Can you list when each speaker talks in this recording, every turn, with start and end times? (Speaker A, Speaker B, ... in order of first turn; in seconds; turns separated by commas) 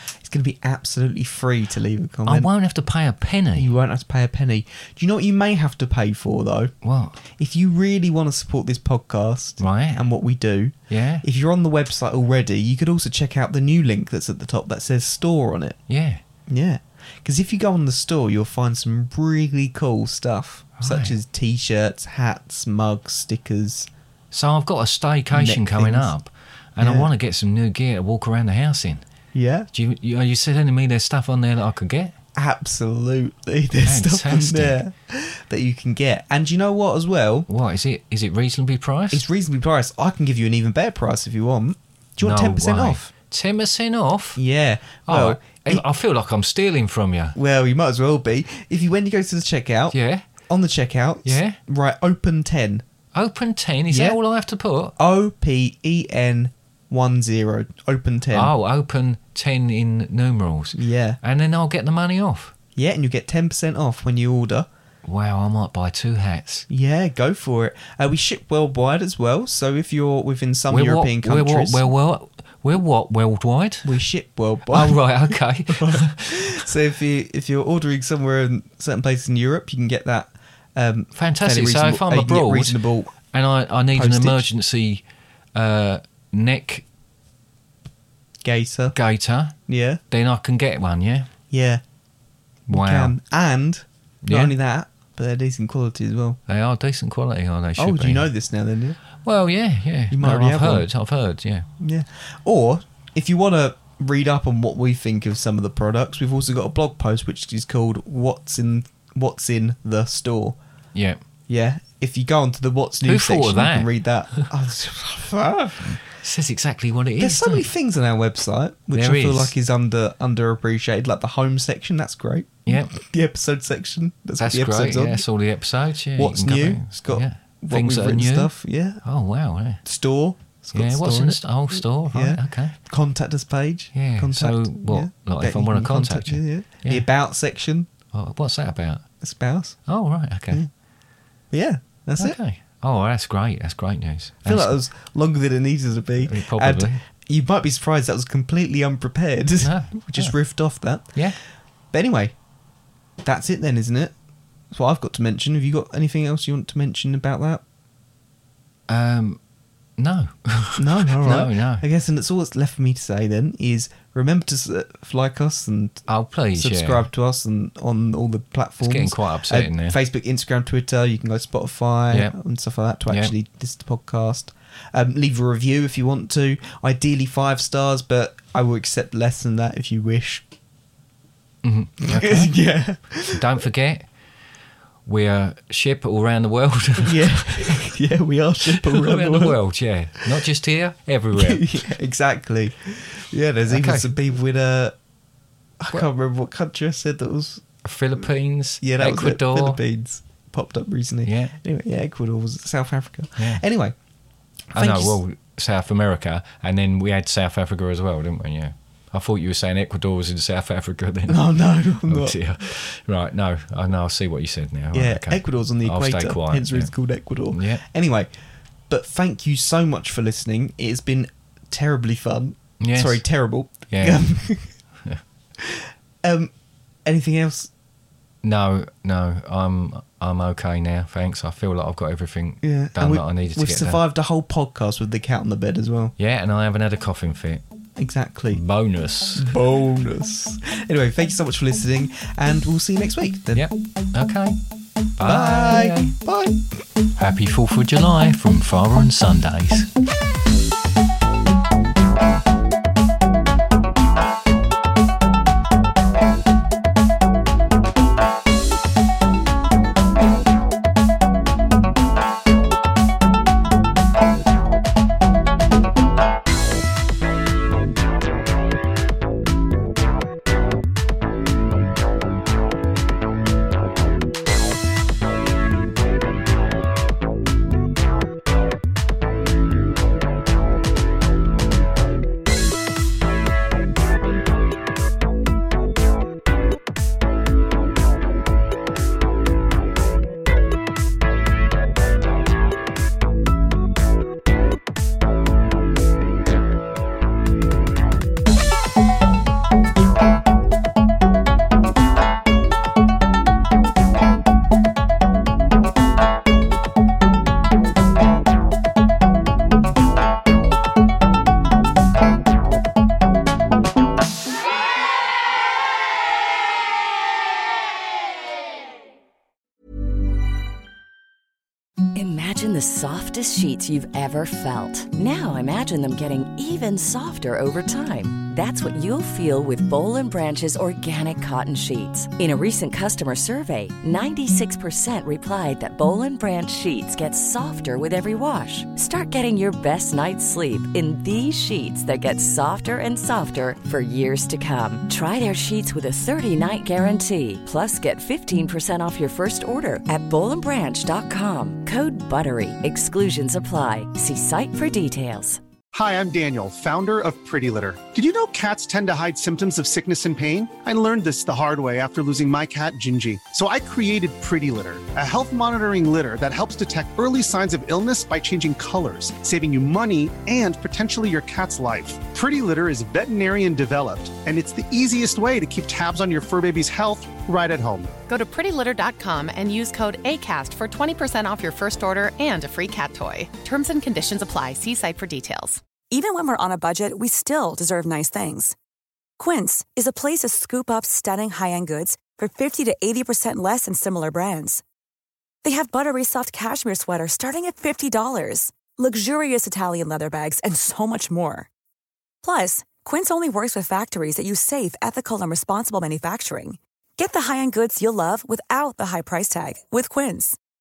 Speaker A: 0.2-2.5, Speaker B: 2.2-3.7, Speaker A: 3.5-6.7, Speaker B: 6.8-7.2, Speaker A: 7.3-15.8, Speaker B: 9.6-10.0, Speaker B: 10.9-11.2, Speaker B: 15.9-16.2, Speaker A: 16.5-23.9, Speaker B: 20.8-21.2, Speaker B: 24.3-29.0, Speaker A: 25.3-26.1, Speaker A: 26.8-27.1, Speaker A: 29.3-29.7, Speaker B: 29.7-32.1, Speaker A: 32.3-37.5, Speaker B: 33.8-34.8, Speaker B: 37.5-39.2, Speaker A: 39.1-43.1, Speaker B: 42.2-44.4, Speaker A: 44.4-45.8, Speaker B: 45.0-47.4, Speaker A: 47.3-52.8, Speaker B: 49.9-50.2, Speaker B: 51.2-51.6, Speaker B: 53.1-54.9, Speaker A: 53.9-54.2, Speaker A: 55.0-58.5, Speaker B: 58.3-62.5, Speaker A: 60.7-61.2, Speaker A: 62.7-64.7, Speaker B: 65.0-66.6, Speaker A: 66.7-71.8, Speaker B: 70.7-74.0, Speaker A: 73.8-75.0, Speaker B: 74.7-76.6, Speaker A: 75.7-83.1, Speaker B: 81.1-86.8, Speaker A: 83.9-84.4, Speaker A: 88.4-89.0, Speaker B: 88.9-89.5, Speaker A: 89.7-90.0, Speaker B: 90.1-91.3, Speaker A: 91.5-91.8, Speaker A: 92.7-96.4, Speaker B: 92.7-93.2, Speaker B: 94.2-94.5, Speaker B: 96.5-98.3, Speaker A: 97.8-99.0, Speaker B: 99.2-101.7, Speaker A: 100.1-100.9, Speaker A: 101.8-110.6, Speaker B: 110.9-111.2, Speaker A: 111.5-116.0, Speaker B: 113.0-114.5, Speaker B: 116.1-117.7, Speaker A: 117.2-125.2, Speaker B: 118.9-119.5, Speaker B: 122.7-123.0, Speaker B: 124.4-129.8, Speaker A: 126.2-129.0, Speaker A: 129.8-137.9, Speaker B: 130.7-132.7, Speaker B: 133.9-137.1, Speaker B: 138.1-139.0, Speaker A: 139.2-139.8, Speaker B: 139.8-140.7, Speaker A: 141.5-142.4, Speaker B: 142.2-144.8, Speaker A: 144.4-151.3, Speaker B: 146.2-147.0, Speaker B: 149.6-150.3, Speaker A: 151.9-152.3, Speaker A: 153.2-154.1, Speaker A: 154.7-157.6, Speaker B: 158.9-159.4, Speaker B: 160.0-161.8, Speaker A: 160.8-180.4, Speaker B: 166.1-167.1, Speaker B: 168.8-170.0, Speaker B: 172.1-172.3, Speaker B: 181.6-182.6, Speaker A: 182.0-183.5, Speaker B: 183.3-184.1, Speaker B: 185.1-187.9, Speaker A: 187.0-189.6, Speaker B: 188.8-191.8, Speaker A: 191.3-194.9, Speaker B: 193.7-194.1, Speaker A: 195.8-197.6, Speaker B: 197.8-199.8, Speaker A: 198.8-203.9, Speaker B: 201.2-201.6, Speaker A: 204.7-205.2, Speaker B: 204.7-216.9, Speaker A: 211.3-212.4, Speaker A: 214.9-218.3, Speaker B: 217.5-217.8, Speaker A: 218.9-224.7, Speaker B: 222.8-223.2, Speaker B: 223.9-224.3, Speaker A: 225.6-226.5, Speaker A: 227.0-227.7, Speaker B: 228.4-234.0, Speaker A: 232.6-236.1, Speaker B: 236.2-237.6, Speaker A: 237.9-238.6, Speaker B: 238.5-239.5, Speaker A: 239.3-243.7, Speaker B: 243.5-244.6, Speaker B: 245.2-246.1, Speaker A: 245.2-246.6, Speaker B: 247.2-249.9, Speaker C: 322.1-355.6, Speaker D: 355.9-378.1, Speaker E: 378.3-385.8, Speaker F: 386.1-388.7, Speaker F: 389.4-394.8, Speaker F: 395.6-401.7, Speaker F: 402.4-410.6